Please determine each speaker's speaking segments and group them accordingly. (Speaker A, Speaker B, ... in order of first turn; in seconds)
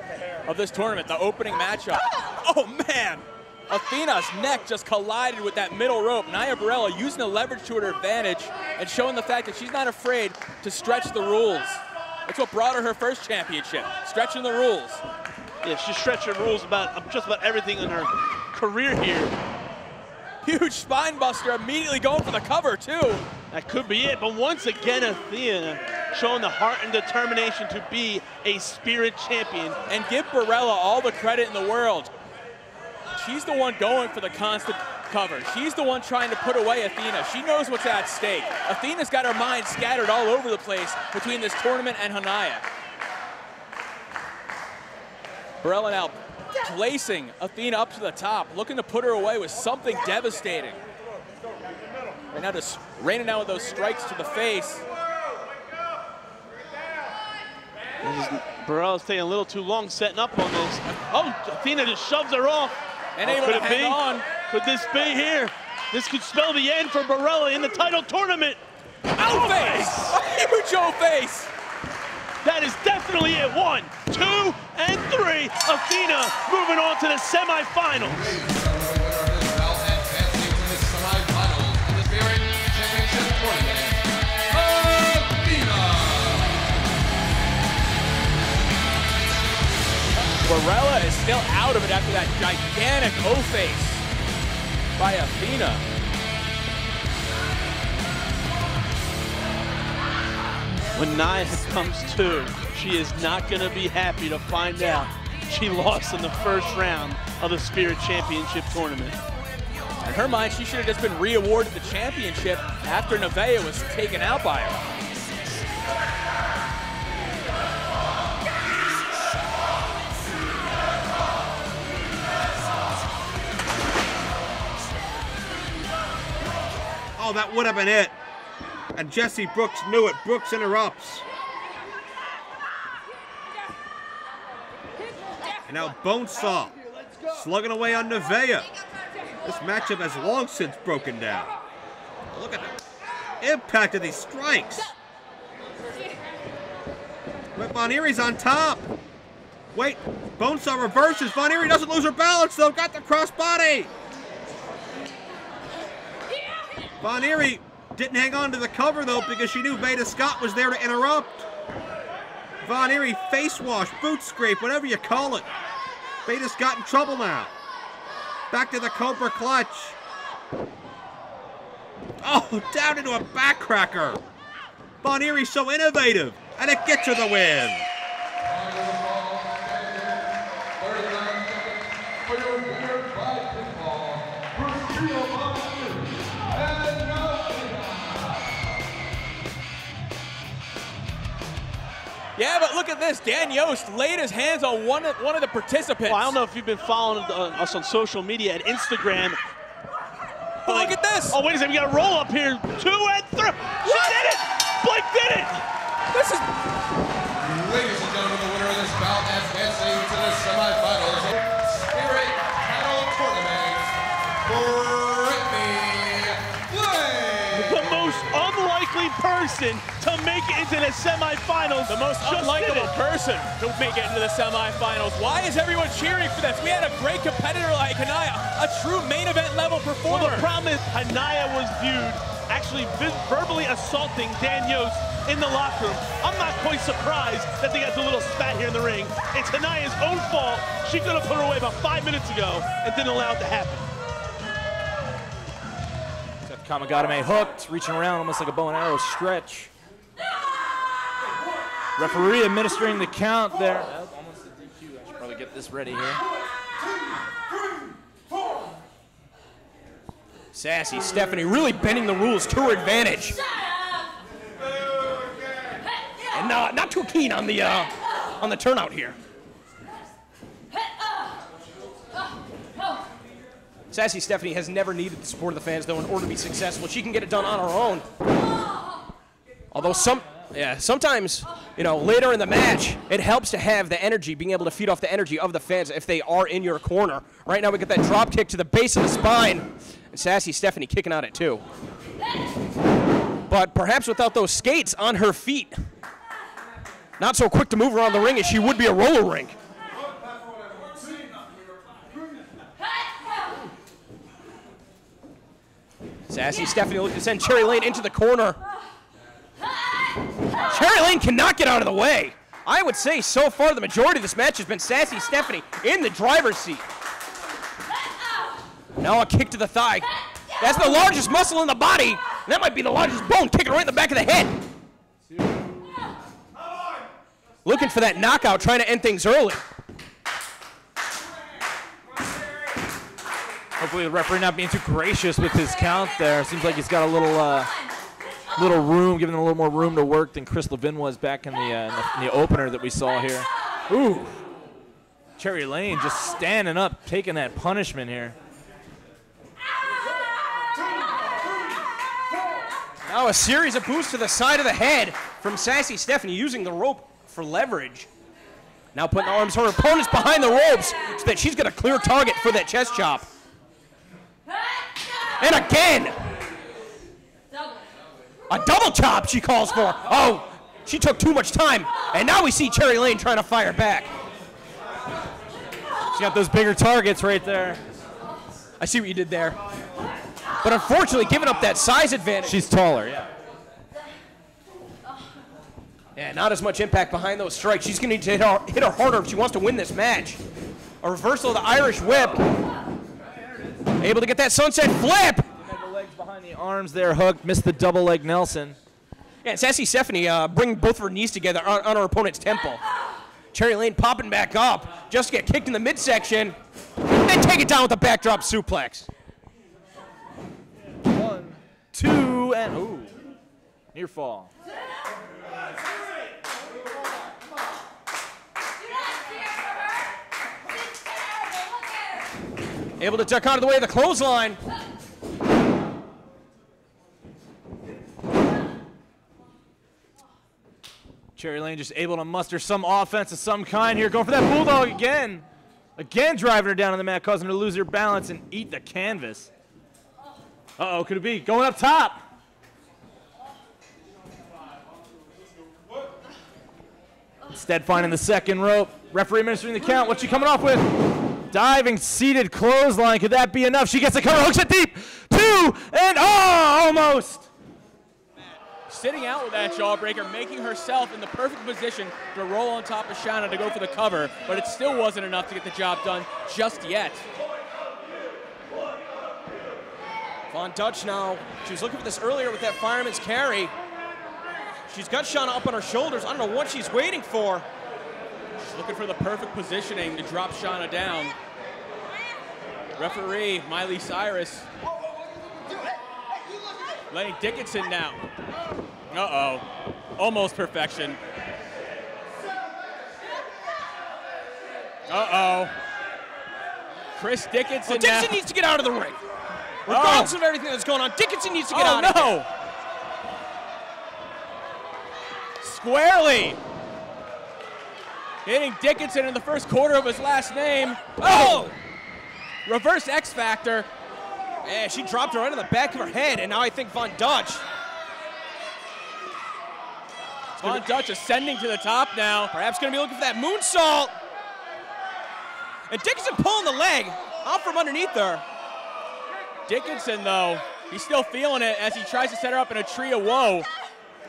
Speaker A: 0.5-15.0, 20.4-23.2, 29.9-32.1, 33.1-42.6, 45.6-50.8, 52.3-54.8, 63.2-64.2, 69.1-71.5, 90.4-94.0, 95.0-95.8, 110.0-114.8, 192.4-196.3, 200.6-201.4, 221.9-230.5, 458.9-467.2, 478.6-481.3, 483.0-484.7, 487.1-488.2, 489.1-489.6, 490.2-491.2, 495.1-495.7, 497.2-498.4, 499.9-500.4, 501.7-502.5, 505.6-506.6, 508.4-511.7, 512.6-513.9, 520.6-522.5, 529.7-533.7
Speaker B: 15.6-19.3, 23.5-29.8, 58.0-68.6, 69.1-70.1, 72.4-78.4, 100.9-109.2, 196.1-199.4, 200.7-205.6, 217.5-222.9, 230.1-243.9
Speaker C: 78.0-86.7, 178.4-188.6, 207.3-218.5
Speaker D: 127.2-128.2, 128.9-131.2, 135.7-136.7, 137.3-138.7, 139.4-141.5, 142.3-142.7, 143.4-144.9, 147.5-148.8, 149.7-153.9, 157.0-161.4, 162.6-165.5, 166.2-167.5, 168.5-169.9, 172.2-174.2, 175.0-177.8
Speaker E: 246.4-249.7, 252.0-256.2, 333.8-337.7, 338.6-344.4, 345.4-348.3, 376.1-377.8, 382.4-383.3, 395.6-398.8, 411.1-413.1, 413.9-414.5, 431.4-435.4, 436.0-439.5, 440.8-442.2, 447.5-457.5
Speaker F: 260.5-263.4, 266.3-269.2, 273.9-278.1, 279.7-291.6, 293.5-295.8, 297.2-299.6, 306.3-308.6, 310.6-316.8, 319.0-324.6, 327.6-329.6, 353.1-358.1, 358.9-363.3, 365.4-366.2, 368.5-374.1, 378.8-379.6, 380.6-382.6, 386.1-390.4, 391.0-392.4, 394.0-395.5, 399.4-402.8, 403.5-409.1, 423.0-424.6, 470.5-473.7, 474.9-477.7, 497.9-499.2, 499.8-502.4, 511.2-511.7, 514.6-517.6, 520.6-520.9, 522.5-524.1, 525.9-528.4